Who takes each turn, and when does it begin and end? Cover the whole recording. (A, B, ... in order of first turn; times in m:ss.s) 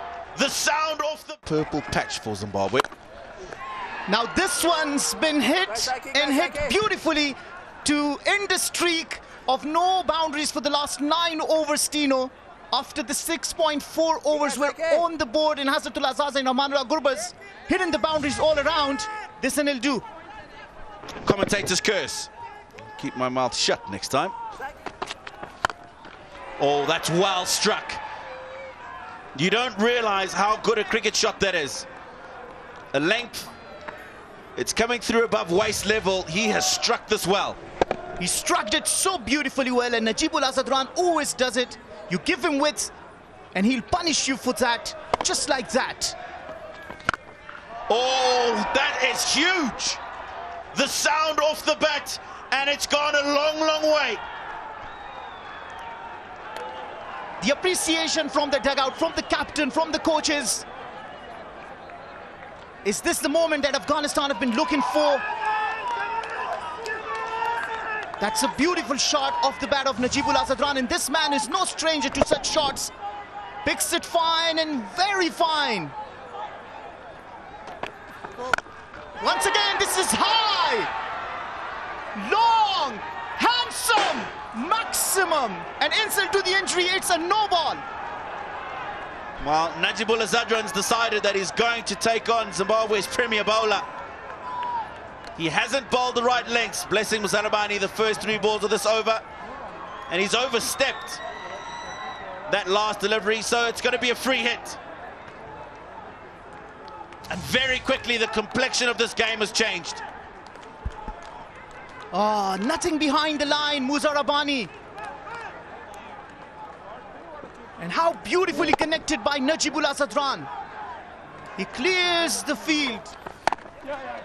0:00.3-0:02.9 A
0:04.1-0:20.0 B
0:21.2-0:22.3 A
0:23.0-0:24.4 A
0:26.6-0:28.0 A
0:29.4-0:31.9 A
0:32.9-0:33.5 A
0:34.6-0:37.6 A
0:38.2-0:42.9 B
0:43.5-0:46.2 B
0:47.9-0:50.0 A
0:50.7-0:54.2 A
0:57.4-1:00.7 B
1:02.8-1:05.2 B
1:08.2-1:12.9 B
1:13.6-1:15.9 B
1:19.2-1:20.9 B
1:22.1-1:27.8 B
1:29.4-1:33.9 A
1:35.4-1:39.2 A
1:40.1-1:41.2 A
1:42.5-1:44.8 A
1:47.3-1:50.0 A
1:52.1-1:54.7 B
1:57.8-2:00.5 B
2:01.6-2:03.2 B